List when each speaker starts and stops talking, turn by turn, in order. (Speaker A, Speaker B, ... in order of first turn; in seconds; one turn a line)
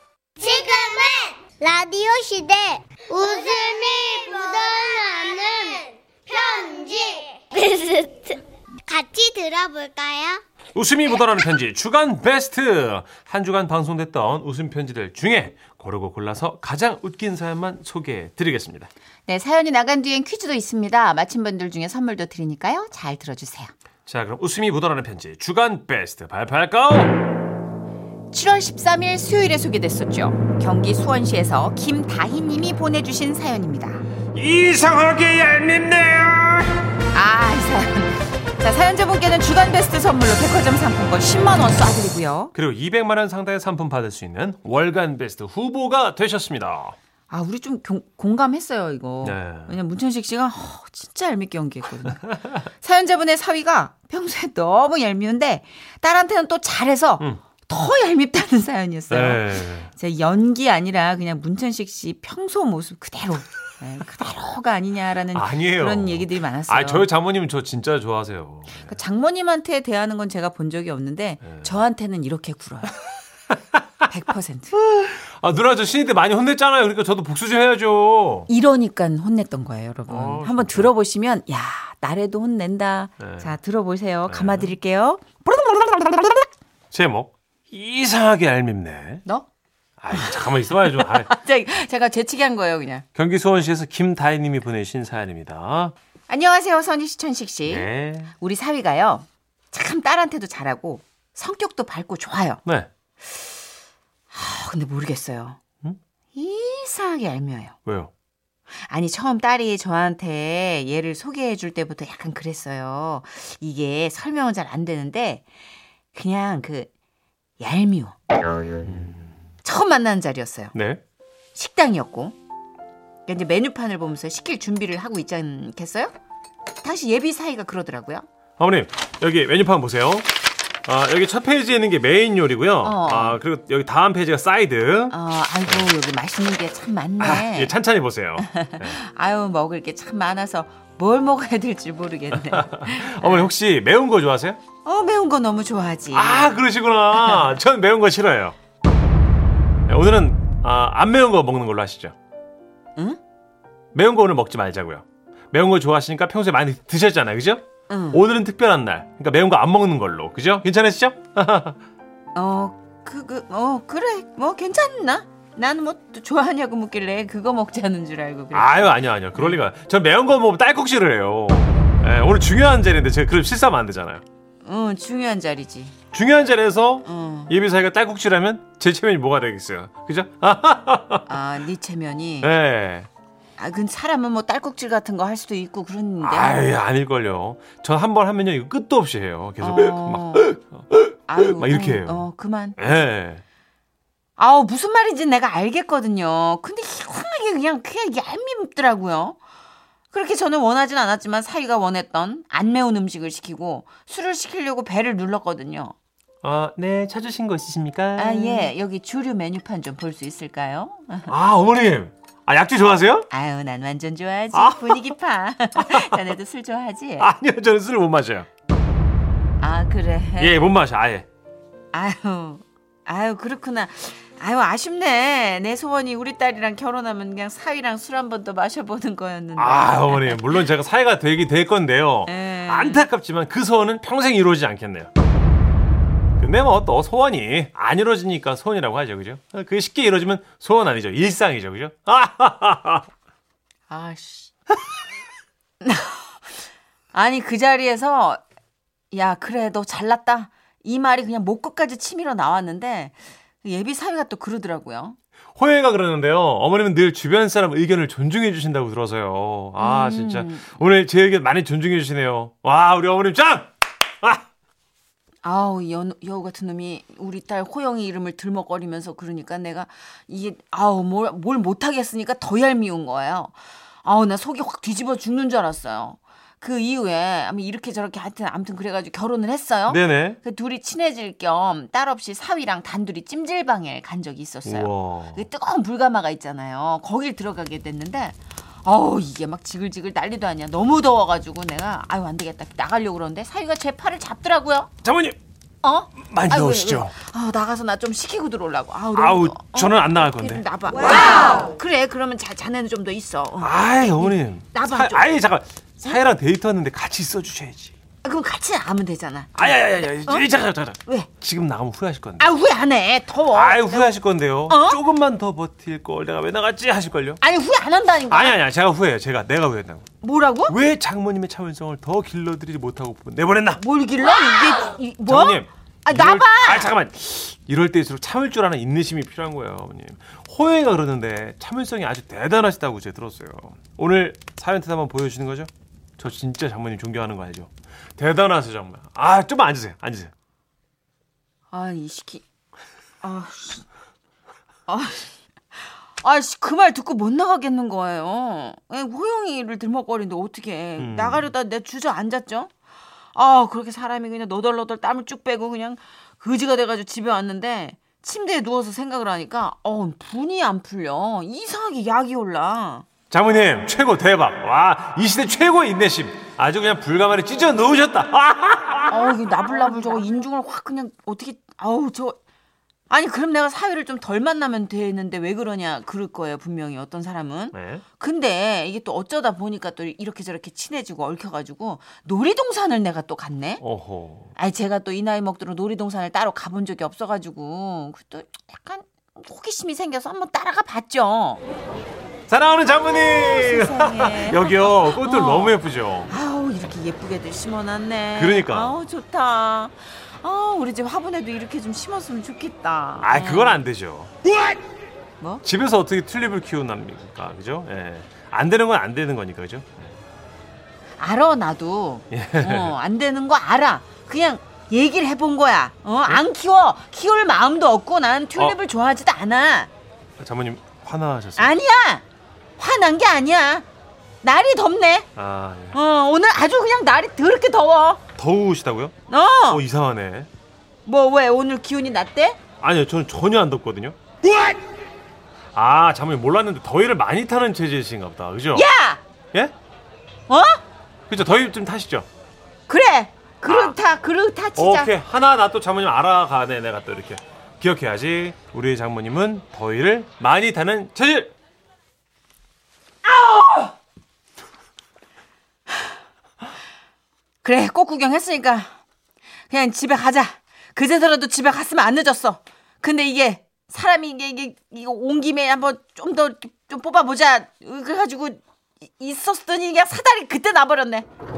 Speaker A: 0.4-10.4
Speaker B: 10.8-18.9
Speaker C: 19.3-23.7
Speaker B: 24.1-27.2
Speaker C: 28.3-34.0
Speaker B: 34.4-36.8
Speaker C: 37.1-42.5
Speaker B: 42.5-47.0
Speaker C: 47.3-67.1
Speaker B: 49.2-49.8
Speaker B: 59.1-59.9
Speaker B: 65.3-69.0
Speaker C: 68.8-73.0
Speaker B: 71.5-71.7
Speaker C: 74.1-74.8
Speaker B: 74.7-78.5
Speaker C: 78.5-86.5
Speaker B: 80.1-80.9
Speaker B: 83.2-83.5
Speaker B: 84.3-84.8
Speaker B: 86.9-89.2
Speaker B: 90.0-91.3
Speaker C: 90.1-93.0
Speaker B: 93.2-95.9
Speaker C: 96.3-102.6
Speaker B: 97.7-98.3
Speaker C: 104.3-105.6
Speaker C: 106.3-107.8
Speaker B: 107.9-108.1
Speaker C: 108.7-115.5
Speaker C: 116.1-116.9
Speaker C: 117.6-118.2
Speaker B: 118.8-119.3
Speaker C: 119.6-120.7
Speaker B: 120.7-121.0
Speaker C: 121.5-122.4
Speaker C: 123.3-126.1
Speaker C: 126.8-128.3
Speaker B: 128.6-130.3
Speaker B: 130.9-135.9
Speaker C: 132.8-133.4
Speaker C: 135.1-137.7
Speaker B: 137.2-139.0
Speaker C: 138.4-143.5
Speaker B: 142.3-144.6
Speaker C: 144.8-146.5
Speaker B: 146.1-148.6
Speaker C: 147.1-147.6
Speaker B: 149.9-152.2
Speaker B: 153.9-161.8
Speaker C: 157.9-158.2
Speaker C: 162.3-169.6
Speaker B: 168.5-174.2
Speaker C: 174.6-176.0
Speaker B: 176.1-181.3
Speaker C: 177.1-177.5
Speaker C: 181.3-182.5
Speaker B: 182.4-183.1
Speaker C: 183.6-186.7
Speaker B: 186.2-192.2
Speaker C: 189.6-190.5
Speaker C: 191.3-193.1
Speaker B: 192.8-193.4
Speaker C: 194.4-199.4
Speaker C: 200.1-205.9
Speaker B: 206.4-208.7
Speaker C: 208.2-211.3
Speaker B: 211.3-213.3
Speaker C: 213.3-217.3
Speaker B: 214.5-215.2
Speaker B: 215.8-216.3
Speaker B: 217.2-218.5
Speaker C: 219.6-220.6
Speaker B: 220.4-221.3
Speaker C: 221.9-230.6
Speaker B: 229.6-235.1
Speaker C: 232.3-233.1
Speaker B: 236.4-243.1
Speaker C: 243.9-244.5
Speaker C: 245.8-246.3
Speaker C: 247.1-248.4
Speaker C: 249.1-255.2
Speaker B: 255.6-264.4
Speaker C: 259.8-260.7
Speaker C: 265.4-294.9
Speaker B: 279.9-280.4
Speaker B: 284.6-285.4
Speaker B: 295.0-295.4
Speaker C: 295.8-305.3
Speaker B: 296.2-297.2
Speaker B: 299.1-300.6
Speaker B: 303.6-307.9
Speaker C: 308.2-310.5
Speaker B: 309.6-312.5
Speaker C: 312.4-314.1
Speaker B: 313.5-317.4
Speaker C: 314.7-315.0
Speaker C: 317.4-318.6
Speaker B: 318.3-320.1
Speaker C: 320.2-320.8
Speaker B: 320.7-323.8
Speaker C: 323.8-326.9
Speaker B: 325.2-340.3
Speaker C: 341.7-342.4
Speaker C: 343.2-343.9
Speaker C: 344.9-352.7
Speaker B: 351.0-351.5
Speaker C: 353.3-363.1
Speaker B: 363.3-369.4
Speaker C: 369.1-372.4
Speaker C: 373.1-383.8
Speaker B: 377.7-378.0
Speaker B: 383.8-384.5
Speaker C: 384.6-391.6
Speaker B: 392.5-396.3
Speaker C: 393.1-403.8
Speaker B: 398.4-399.0
Speaker B: 403.2-404.3
Speaker B: 405.6-410.2
Speaker C: 411.2-419.9
Speaker B: 412.3-412.9
Speaker B: 420.4-421.8
Speaker C: 421.6-422.2
Speaker C: 422.8-423.9
Speaker C: 424.4-425.3
Speaker B: 425.4-426.0
Speaker C: 425.9-428.2
Speaker B: 428.4-429.1
Speaker C: 429.3-429.8
Speaker B: 429.7-430.5
Speaker C: 431.1-432.6
Speaker B: 432.8-434.2
Speaker C: 434.5-434.8
Speaker B: 435.7-438.9
Speaker C: 438.7-439.2
Speaker C: 440.5-440.8
Speaker B: 441.3-442.3
Speaker C: 442.9-445.1
Speaker B: 443.7-444.0
Speaker B: 444.8-451.5
Speaker C: 453.4-453.9
Speaker C: 457.6-458.9
Speaker C: 459.7-471.3